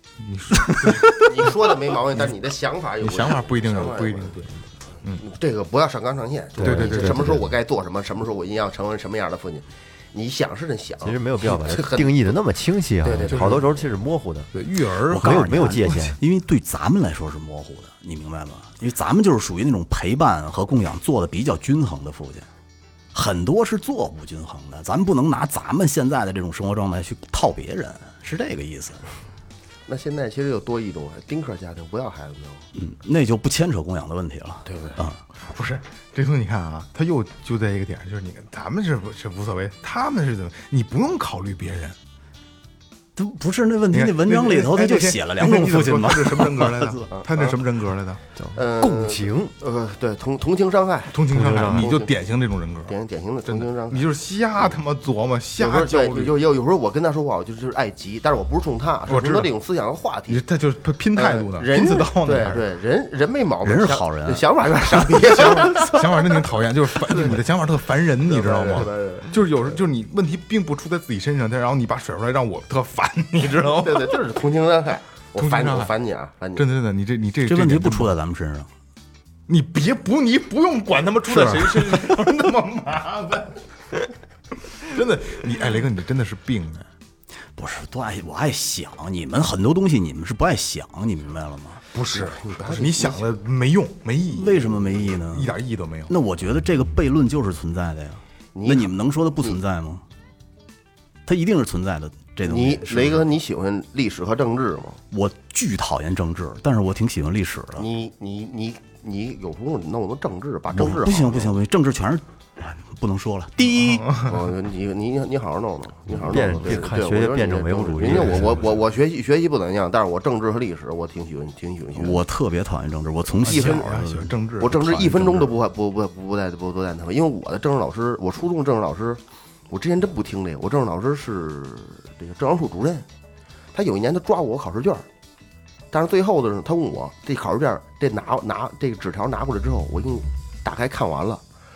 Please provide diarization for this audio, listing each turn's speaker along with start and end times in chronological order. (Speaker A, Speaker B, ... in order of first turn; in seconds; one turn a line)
Speaker A: 0.2-1.6
Speaker B: 0.6-1.2
Speaker C: 1.2-4.3
Speaker A: 3.0-5.2
Speaker C: 5.2-12.3
Speaker D: 6.6-7.5
Speaker A: 6.6-7.4
Speaker D: 11.0-14.5
Speaker C: 13.0-13.7
Speaker A: 13.3-13.7
Speaker A: 14.5-16.1
Speaker D: 15.1-16.2
Speaker B: 15.1-22.5
Speaker B: 23.1-29.0
Speaker C: 29.9-32.7
Speaker B: 32.8-35.2
Speaker C: 34.7-35.0
Speaker A: 35.3-42.0
Speaker B: 43.2-47.0
Speaker A: 43.9-48.2
Speaker C: 47.1-47.6
Speaker D: 48.4-49.5
Speaker C: 48.5-52.1
Speaker A: 51.1-56.4
Speaker D: 51.3-51.9
Speaker C: 52.9-54.0
Speaker C: 55.6-60.4
Speaker A: 59.1-59.5
Speaker A: 60.3-62.7
Speaker C: 61.2-66.3
Speaker B: 63.6-64.4
Speaker A: 65.1-74.2
Speaker C: 67.1-67.4
Speaker C: 68.3-69.3
Speaker C: 73.4-76.6
Speaker A: 75.3-75.9
Speaker A: 76.6-78.1
Speaker B: 77.5-78.7
Speaker A: 79.5-83.6
Speaker B: 81.3-82.2
Speaker A: 84.7-86.9
Speaker B: 87.6-91.8
Speaker A: 91.9-96.1
Speaker C: 92.1-93.2
Speaker B: 94.3-95.5
Speaker B: 96.1-100.0
Speaker C: 98.5-99.6
Speaker B: 101.3-103.3
Speaker C: 102.5-105.0
Speaker B: 105.1-107.9
Speaker C: 107.8-111.5
Speaker B: 110.7-114.1
Speaker A: 113.8-114.4
Speaker C: 114.2-122.2
Speaker D: 116.2-118.7
Speaker A: 118.0-118.5
Speaker B: 122.0-125.5
Speaker A: 123.4-124.8
Speaker C: 123.5-123.9
Speaker C: 124.6-133.1
Speaker C: 133.7-135.1
Speaker C: 135.9-141.4